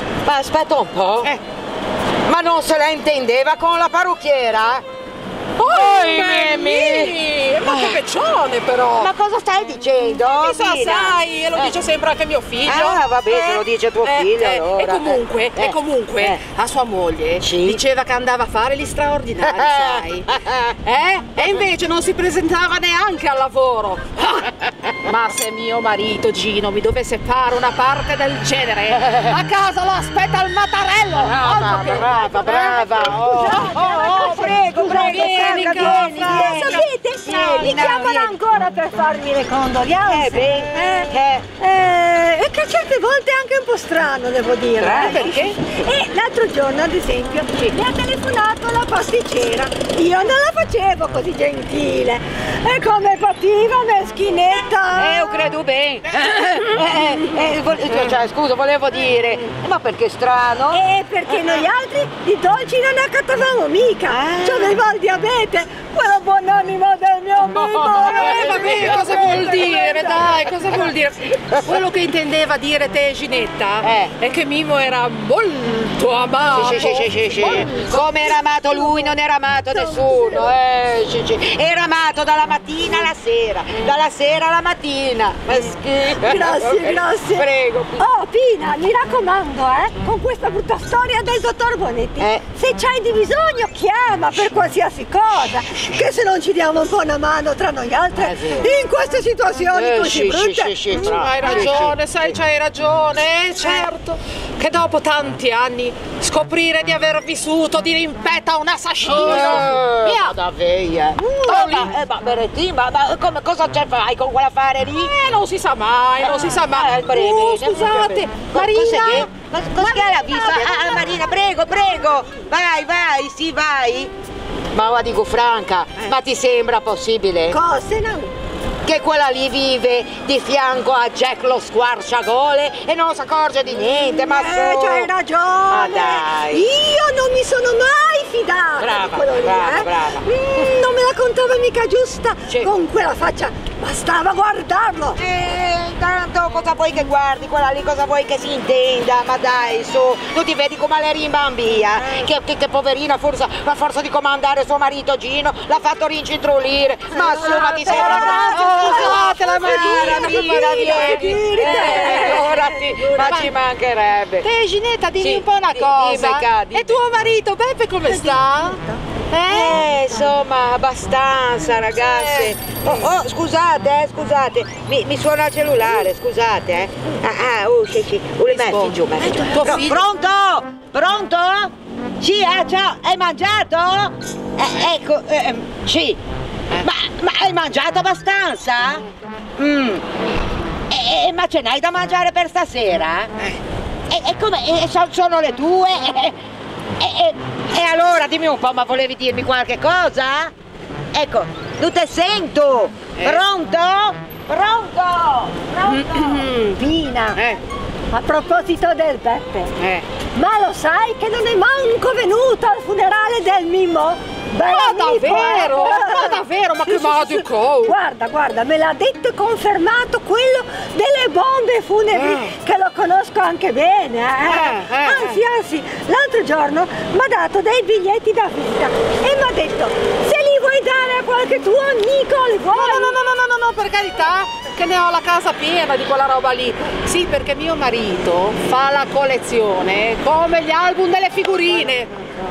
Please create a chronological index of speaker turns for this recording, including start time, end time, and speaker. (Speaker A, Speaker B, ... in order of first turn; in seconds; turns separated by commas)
Speaker A: 0.2-1.4, Speaker A: 2.2-4.8, Speaker B: 5.6-9.1, Speaker A: 5.6-8.0, Speaker A: 9.0-11.8, Speaker B: 10.3-20.3, Speaker A: 12.6-16.4, Speaker A: 17.4-17.8, Speaker A: 19.4-20.8, Speaker B: 20.8-33.3, Speaker A: 29.0-29.3, Speaker A: 31.2-38.3, Speaker C: 33.1-55.4, Speaker B: 34.9-36.9, Speaker A: 40.1-41.5, Speaker A: 44.8-45.5, Speaker B: 44.9-45.5, Speaker A: 54.9-60.8, Speaker C: 60.7-70.3, Speaker A: 64.1-64.8, Speaker A: 67.4-69.1, Speaker B: 68.0-78.4, Speaker A: 73.8-74.1, Speaker A: 76.5-88.1, Speaker C: 79.7-80.5, Speaker C: 86.2-101.2, Speaker A: 98.2-98.7, Speaker A: 99.7-102.0, Speaker B: 100.9-110.4, Speaker A: 109.0-115.1, Speaker B: 111.4-111.9, Speaker B: 114.9-119.3, Speaker A: 116.2-124.1, Speaker C: 119.8-121.2, Speaker A: 124.7-127.6, Speaker C: 127.5-128.3, Speaker A: 128.8-135.1, Speaker C: 134.2-145.2, Speaker A: 135.7-136.7, Speaker A: 138.8-140.3, Speaker A: 145.2-164.5, Speaker B: 157.2-163.6, Speaker C: 157.6-162.5, Speaker B: 164.4-169.8, Speaker A: 165.2-167.0, Speaker A: 169.5-186.2, Speaker B: 171.9-172.6, Speaker B: 178.5-180.1, Speaker A: 186.7-189.0, Speaker A: 189.6-190.1, Speaker A: 190.9-193.3, Speaker A: 194.1-196.4, Speaker A: 197.0-200.5, Speaker A: 201.1-206.8, Speaker B: 205.9-206.5, Speaker C: 206.6-207.4, Speaker C: 208.1-209.7, Speaker A: 209.8-210.1, Speaker C: 210.3-233.2, Speaker B: 214.7-217.9, Speaker B: 224.4-225.4, Speaker B: 232.7-242.1